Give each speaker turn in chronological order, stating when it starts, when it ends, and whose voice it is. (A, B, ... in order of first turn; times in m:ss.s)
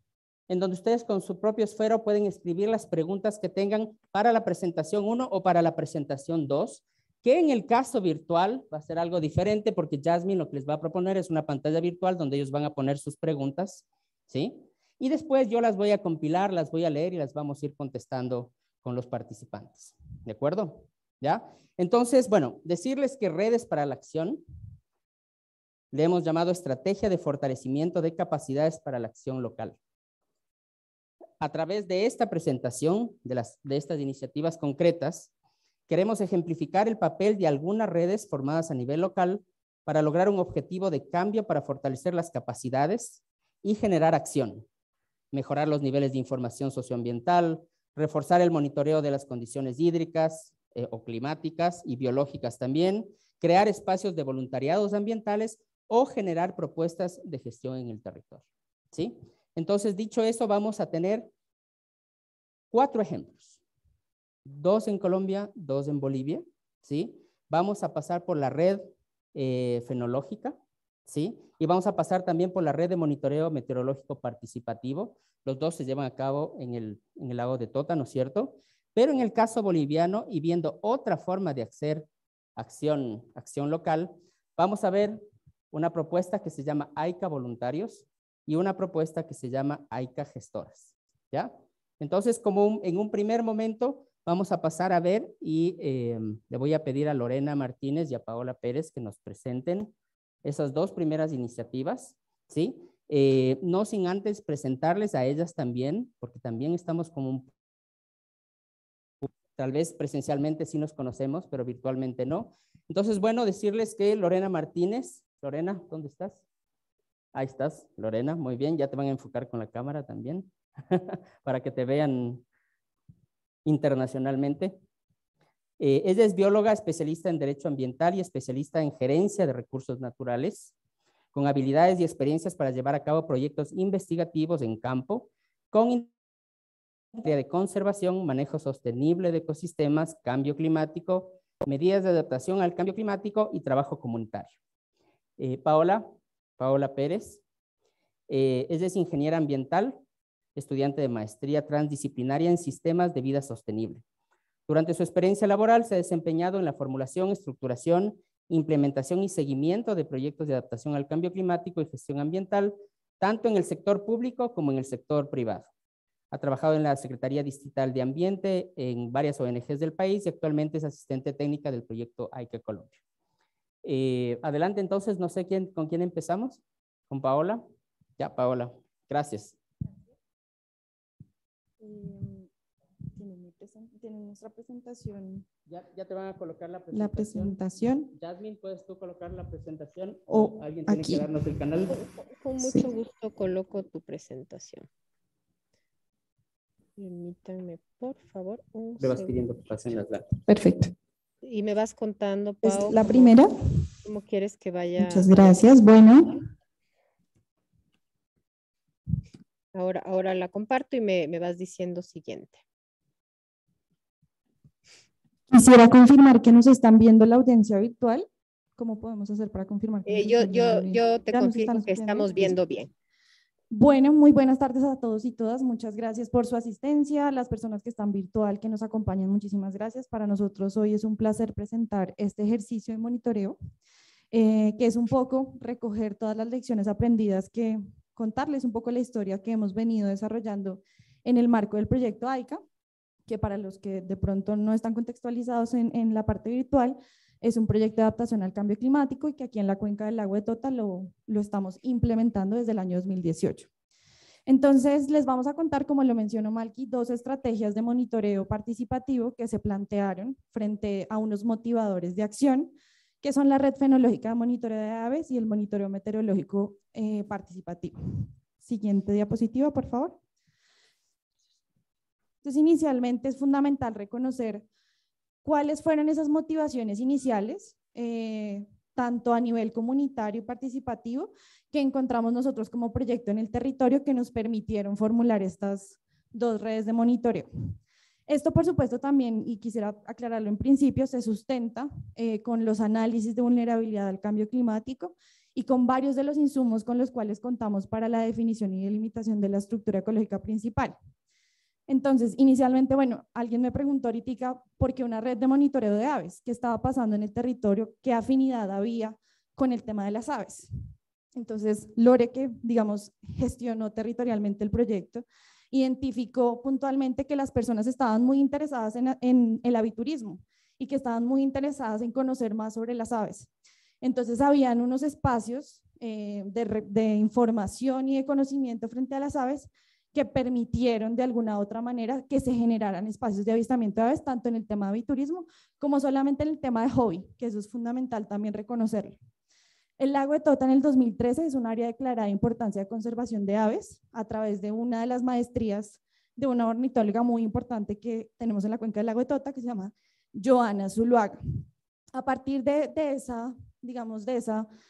0:00.5-0:24.4 A
0:25.9-0:29.8 A
0:31.4-0:35.3 A
0:35.9-0:44.6 A
0:45.3-1:01.3 A
1:02.7-1:03.6 A
1:04.4-1:39.9 A
1:40.4-1:47.5 A
1:49.2-1:56.4 A
1:57.3-2:02.4 A
2:03.6-2:04.8 A
2:05.8-2:10.7 A
2:11.3-2:16.1 A
2:17.2-2:24.5 A
2:25.4-2:27.4 A
2:28.3-2:30.0 A
2:30.6-2:34.0 A
2:34.7-2:45.7 A
2:46.3-2:53.0 A
2:53.8-2:57.6 A
2:58.2-2:59.6 A
3:01.8-3:02.5 B
3:03.1-3:05.4 B
3:05.7-3:07.6 A
3:06.9-3:08.1 B
3:08.1-3:11.9 A
3:10.3-3:11.3 B
3:11.9-3:14.9 C
3:17.0-3:19.4 C
3:19.0-3:20.4 A
3:20.5-3:20.9 B
3:21.4-3:23.4 C
3:22.6-3:23.5 B
3:24.0-3:25.6 C
3:25.0-3:26.2 B
3:29.7-3:32.6 C
3:35.5-3:42.6 B
3:40.0-3:42.9 C
3:43.7-3:53.6 B
3:54.3-4:02.6 B
4:03.3-4:13.7 B
4:14.4-4:30.2 B
4:32.4-4:34.7 B
4:35.4-4:47.5 B
4:48.3-5:01.0 B
5:01.9-5:10.7 B
5:11.3-5:23.5 B
5:24.0-5:39.2 B
5:40.0-5:51.4 B
5:52.1-5:54.7 B